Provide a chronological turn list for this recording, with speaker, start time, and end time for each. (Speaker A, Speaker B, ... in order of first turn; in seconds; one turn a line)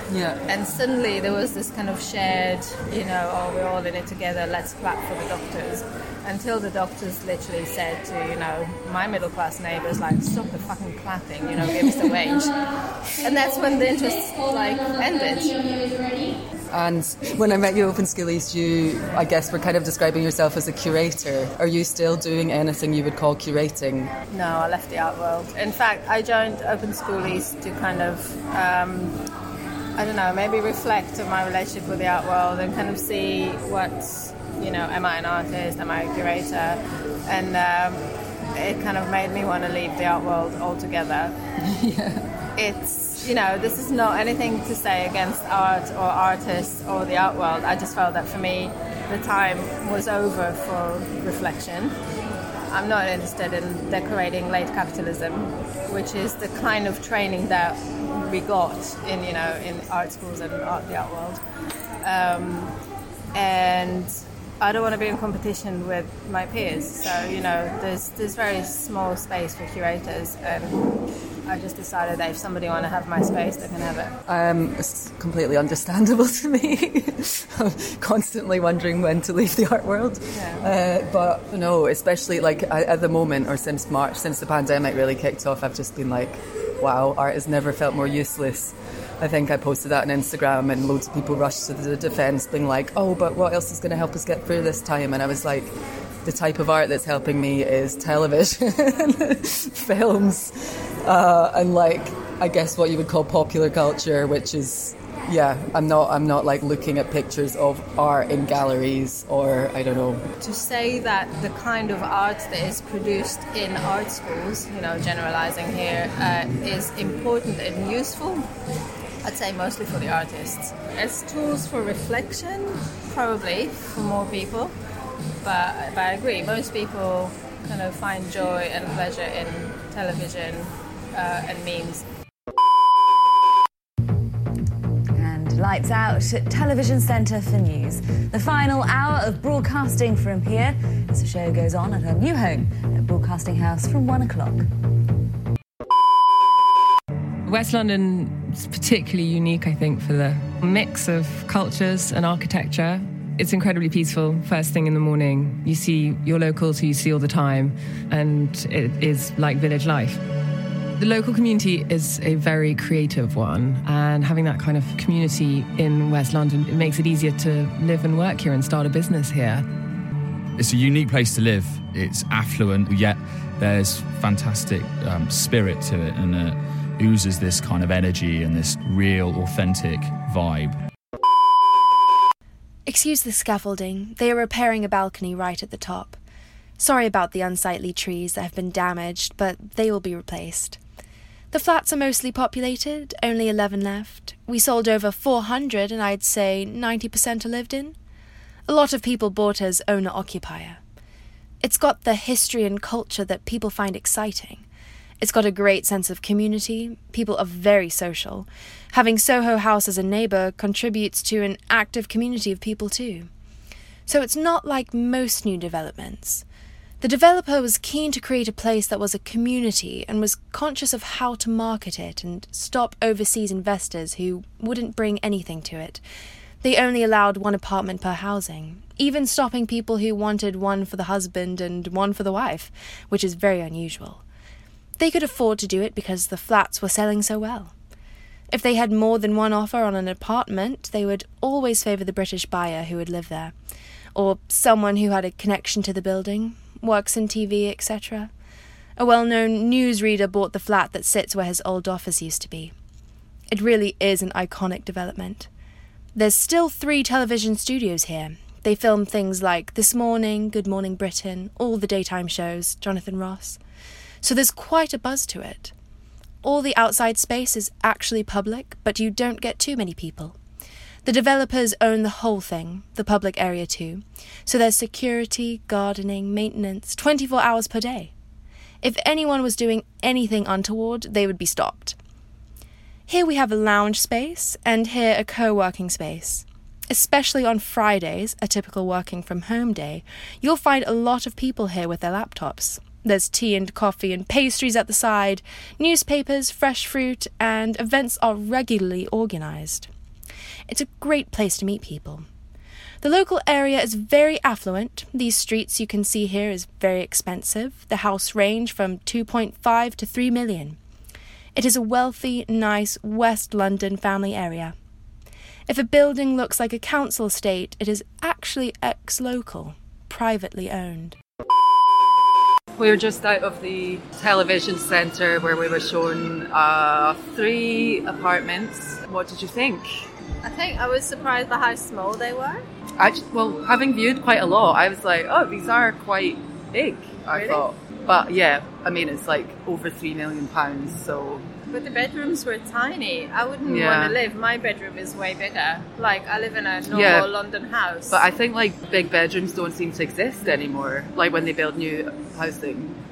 Speaker A: 0.1-0.4
Speaker B: 0.5-12.5
Speaker A: 11.6-12.1
Speaker B: 13.2-15.9
Speaker A: 16.7-24.1
Speaker B: 24.3-29.2
Speaker B: 29.9-41.4
Speaker A: 41.6-42.3
Speaker B: 42.5-52.0
Speaker B: 52.7-61.4
Speaker B: 62.0-62.8
Speaker B: 63.3-70.8
Speaker B: 71.5-74.2
Speaker A: 74.2-110.3
Speaker B: 80.3-80.7
Speaker B: 110.4-118.5
Speaker B: 119.2-124.7
Speaker B: 125.4-132.1
Speaker C: 135.1-144.7
Speaker D: 147.4-160.2
Speaker D: 161.0-169.7
Speaker E: 170.6-180.8
Speaker F: 182.8-186.2
Speaker F: 186.8-190.8
Speaker F: 191.5-197.9
Speaker F: 198.7-200.8
Speaker F: 201.6-204.6
Speaker F: 205.2-213.3
Speaker F: 214.1-216.4
Speaker F: 217.0-226.0
Speaker F: 226.6-234.2
Speaker F: 235.0-237.7
Speaker F: 238.5-243.5
Speaker F: 244.1-248.3
Speaker F: 249.0-252.7
Speaker F: 253.5-255.5
Speaker F: 256.1-263.6
Speaker F: 264.2-265.7
Speaker F: 266.4-270.4
Speaker F: 271.0-278.1
Speaker F: 278.8-281.9
Speaker F: 283.1-299.9
Speaker F: 300.7-302.2
Speaker F: 303.0-310.8
Speaker F: 311.5-314.7
Speaker F: 315.7-321.1
Speaker A: 322.8-330.1
Speaker B: 330.4-332.7
Speaker A: 333.0-341.5
Speaker B: 337.3-337.6
Speaker B: 341.7-348.2
Speaker A: 343.6-344.2
Speaker A: 346.9-347.3
Speaker A: 348.1-353.0